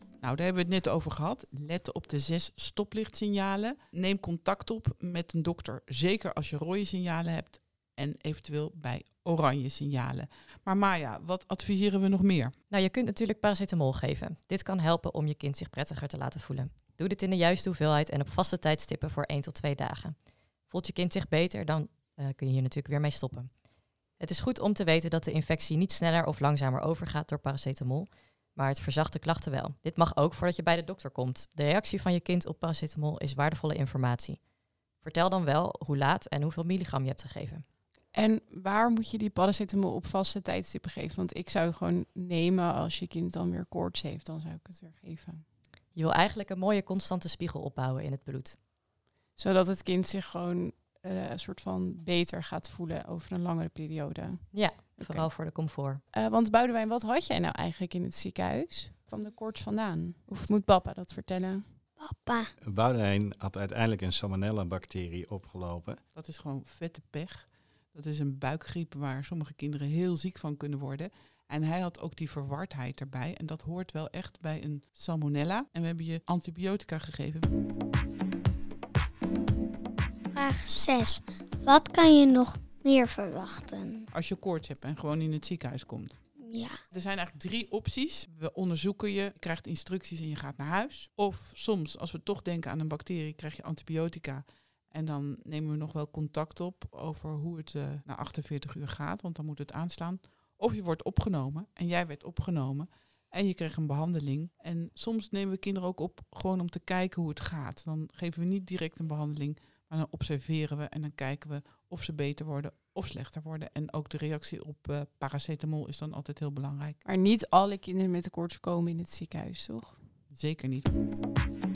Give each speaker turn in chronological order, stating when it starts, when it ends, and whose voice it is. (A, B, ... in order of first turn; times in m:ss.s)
0:00.2-0:12.5 A
0:12.7-0:20.1 B
0:20.7-0:23.5 B
0:24.2-0:34.4 B
0:35.0-0:37.6 B
0:38.1-0:45.4 C
0:45.9-0:48.6 B
0:49.4-0:55.3 C
0:54.5-0:56.0 B
0:56.1-1:01.6 C
1:02.0-1:02.5 D
1:02.6-1:06.0 E
1:06.1-1:17.5 A
1:20.3-1:24.0 D
1:24.1-1:26.2 A
1:26.4-1:26.8 D
1:26.9-1:57.0 A
1:57.0-2:00.0 C
2:00.3-2:00.9 A